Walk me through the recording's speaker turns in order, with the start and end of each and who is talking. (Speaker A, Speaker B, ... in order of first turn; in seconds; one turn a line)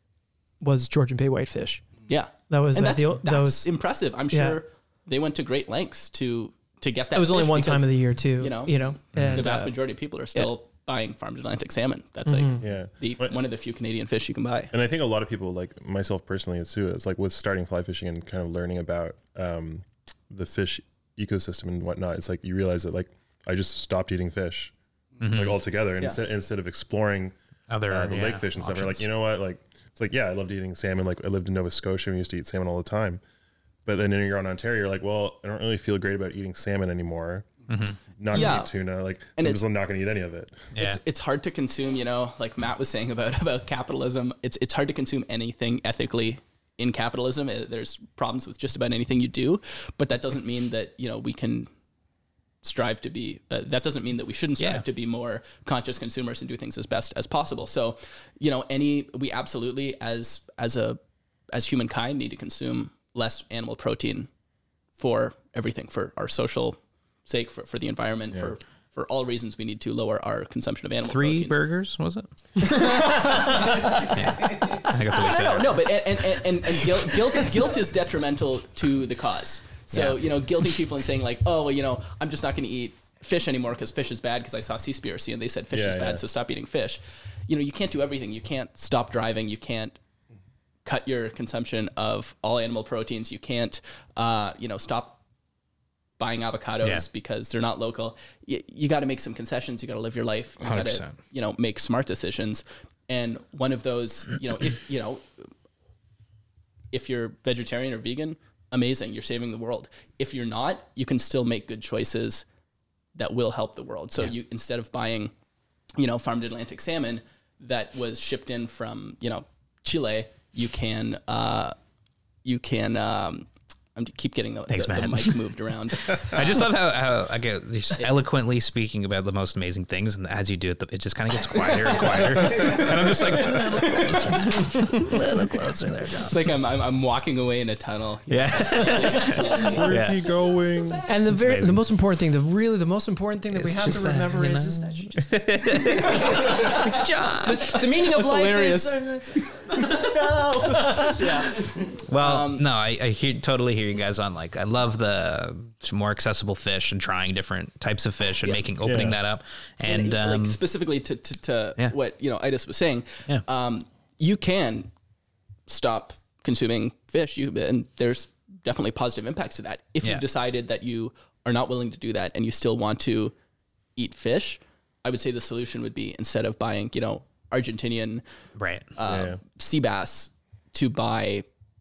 Speaker A: 0.6-1.9
Speaker B: 2.1-14.7
Speaker A: 2.5-3.7
Speaker A: 4.3-4.6
Speaker A: 7.1-9.7
Speaker C: 9.1-9.4
Speaker A: 12.2-12.6
Speaker D: 12.6-13.4
Speaker D: 14.7-24.7
Speaker C: 25.2-25.6
Speaker D: 25.2-27.3
Speaker C: 27.7-29.1
Speaker D: 27.9-33.2
Speaker D: 33.9-37.5
Speaker C: 37.7-38.0
Speaker D: 38.1-40.7
Speaker B: 38.3-38.7
Speaker B: 39.4-39.6
Speaker C: 40.7-41.0
Speaker B: 40.7-51.7
Speaker B: 52.6-61.0
Speaker C: 54.6-54.8
Speaker B: 61.5-64.3
Speaker B: 65.0-71.6
Speaker C: 71.0-72.3
Speaker A: 72.6-74.0
Speaker B: 72.6-90.0
Speaker C: 73.8-75.9
Speaker C: 79.9-80.2
Speaker D: 85.7-86.2
Speaker B: 90.8-95.2
Speaker B: 96.2-105.3
Speaker C: 100.6-101.2
Speaker B: 106.9-112.4
Speaker B: 113.1-115.3
Speaker B: 116.0-121.7
Speaker B: 122.4-126.5
Speaker C: 124.7-125.4
Speaker C: 126.0-136.4
Speaker B: 136.3-139.8
Speaker C: 138.3-140.2
Speaker D: 139.5-141.1
Speaker A: 141.1-150.1
Speaker C: 141.3-141.8
Speaker C: 143.5-147.8
Speaker B: 146.4-146.8
Speaker B: 147.8-152.7
Speaker A: 150.7-151.2
Speaker C: 151.8-160.6
Speaker D: 158.8-159.2
Speaker B: 159.8-164.9
Speaker B: 165.7-173.3
Speaker B: 173.9-178.2
Speaker C: 178.6-178.9
Speaker B: 178.9-181.4
Speaker D: 179.0-179.4